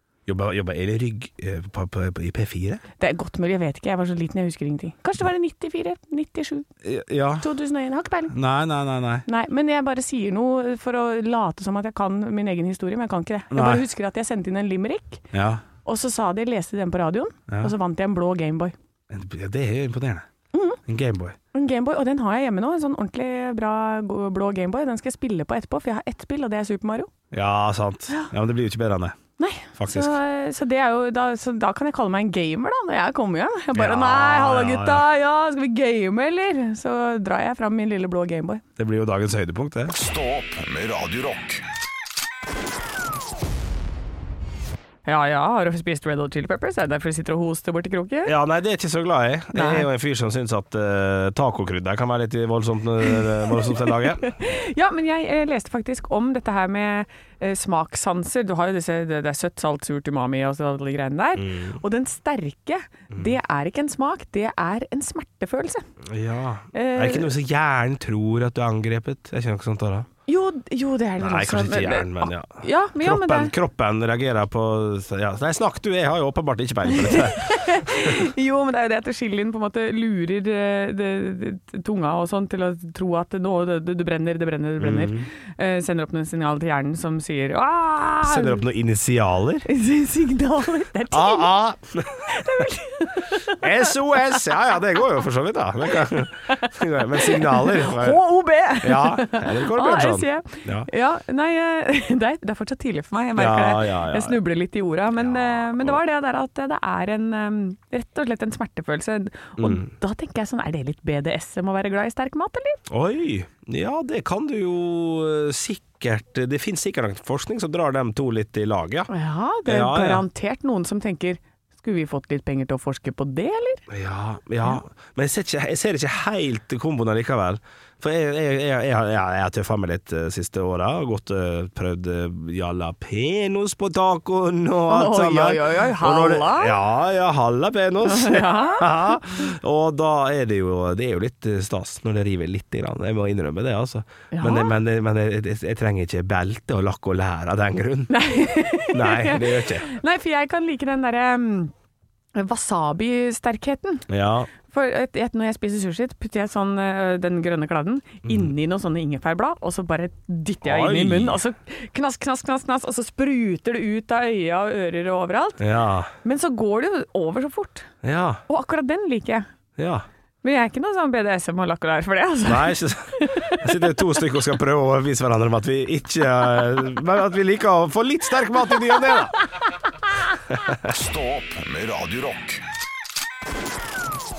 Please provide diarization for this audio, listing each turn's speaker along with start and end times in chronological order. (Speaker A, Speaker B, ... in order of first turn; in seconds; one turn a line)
Speaker A: 0.3-2.8
Speaker B: 3.0-6.7
Speaker A: 6.8-7.5
Speaker B: 7.4-8.3
Speaker A: 8.3-9.2
Speaker B: 9.3-15.2
Speaker A: 13.5-13.8
Speaker A: 15.3-15.6
Speaker B: 15.8-18.7
Speaker A: 19.1-20.3
Speaker B: 20.5-20.8
Speaker A: 20.9-21.4
Speaker B: 21.5-27.1
Speaker A: 27.3-29.2
Speaker B: 29.4-38.6
Speaker A: 29.8-30.1
Speaker A: 33.7-35.1
Speaker A: 38.8-40.0
Speaker C: 39.9-41.6
Speaker B: 45.0-48.3
Speaker A: 48.3-54.2
Speaker B: 49.5-49.9
Speaker B: 53.5-65.8
Speaker A: 61.4-61.8
Speaker A: 66.1-70.1
Speaker B: 66.7-67.3
Speaker B: 70.3-73.5
Speaker A: 71.2-78.3
Speaker B: 76.9-88.6
Speaker A: 84.8-85.3
Speaker A: 88.2-89.7
Speaker B: 89.7-91.6
Speaker A: 91.1-92.7
Speaker B: 92.2-93.6
Speaker A: 93.5-98.2
Speaker B: 96.5-112.8
Speaker A: 98.8-100.9
Speaker A: 103.4-104.4
Speaker A: 105.2-106.0
Speaker A: 109.6-109.9
Speaker A: 112.9-119.1
Speaker B: 119.1-123.8
Speaker A: 119.7-120.3
Speaker A: 123.9-148.2
Speaker B: 134.9-136.8
Speaker B: 138.1-139.4
Speaker B: 144.3-144.8
Speaker B: 148.1-151.7
Speaker A: 148.9-149.9
Speaker B: 152.3-154.1
Speaker A: 154.1-154.5
Speaker B: 154.7-165.6
Speaker A: 158.2-158.5
Speaker A: 160.6-161.4
Speaker A: 165.6-166.1
Speaker B: 166.2-167.9
Speaker A: 168.0-168.4
Speaker B: 168.5-169.5
Speaker A: 169.8-170.1
Speaker B: 170.4-174.2
Speaker A: 172.4-179.4
Speaker C: 180.9-182.6